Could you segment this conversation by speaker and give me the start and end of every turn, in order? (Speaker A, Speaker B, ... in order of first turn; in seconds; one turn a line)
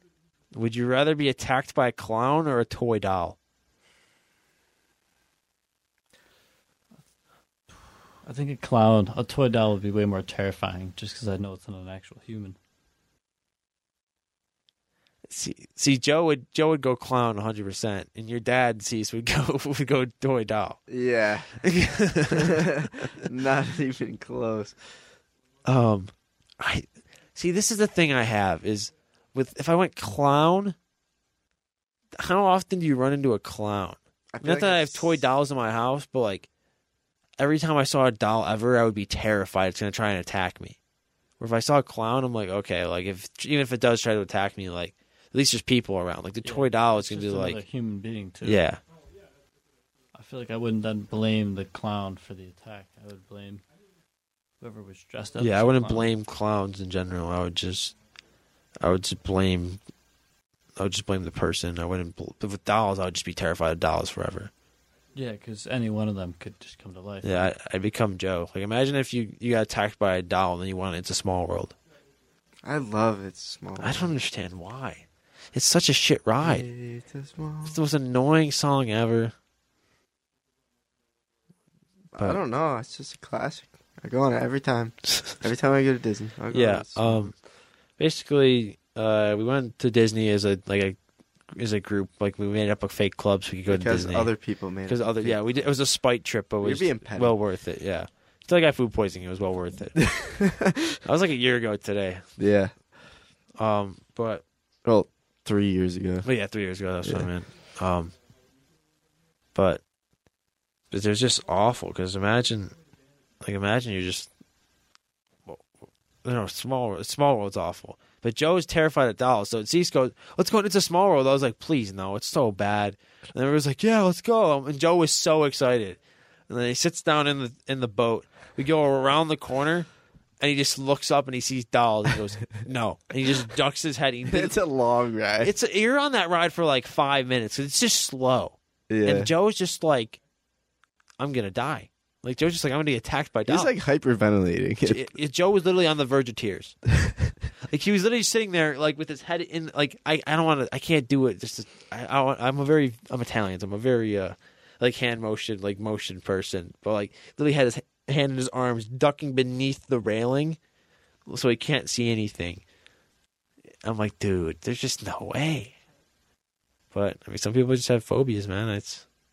Speaker A: 0.5-3.4
Speaker B: 8.2-12.6
Speaker A: 15.3-20.8
Speaker C: 20.9-21.6
Speaker A: 21.6-23.1
Speaker C: 22.3-24.8
Speaker A: 25.6-30.8
Speaker A: 32.2-36.5
Speaker C: 34.3-35.2
Speaker A: 37.4-40.8
Speaker A: 41.4-47.6
Speaker B: 46.4-48.6
Speaker A: 48.4-48.8
Speaker B: 50.1-53.6
Speaker B: 54.6-56.1
Speaker A: 55.4-57.9
Speaker A: 58.8-59.8
Speaker A: 60.8-64.5
Speaker B: 65.1-67.5
Speaker A: 67.2-71.7
Speaker C: 72.6-74.1
Speaker A: 73.8-76.7
Speaker C: 76.4-77.8
Speaker A: 77.6-79.3
Speaker C: 82.1-87.3
Speaker A: 86.5-87.3
Speaker A: 88.0-91.0
Speaker A: 91.5-94.3
Speaker C: 93.7-95.7
Speaker A: 94.8-100.2
Speaker C: 96.6-97.4
Speaker C: 100.0-101.0
Speaker A: 101.0-102.3
Speaker C: 102.4-102.7
Speaker A: 103.6-104.4
Speaker C: 104.8-106.3
Speaker A: 106.2-108.1
Speaker C: 107.0-107.3
Speaker A: 109.5-109.8
Speaker A: 110.9-112.7
Speaker A: 113.4-114.3
Speaker A: 116.2-129.9
Speaker A: 130.4-134.6
Speaker C: 134.2-135.5
Speaker A: 135.4-140.2
Speaker C: 138.9-139.3
Speaker A: 141.2-143.7
Speaker C: 143.4-145.1
Speaker A: 144.8-146.8
Speaker C: 147.0-147.2
Speaker A: 147.7-160.6
Speaker A: 161.3-162.6
Speaker A: 163.8-165.8
Speaker A: 166.9-169.1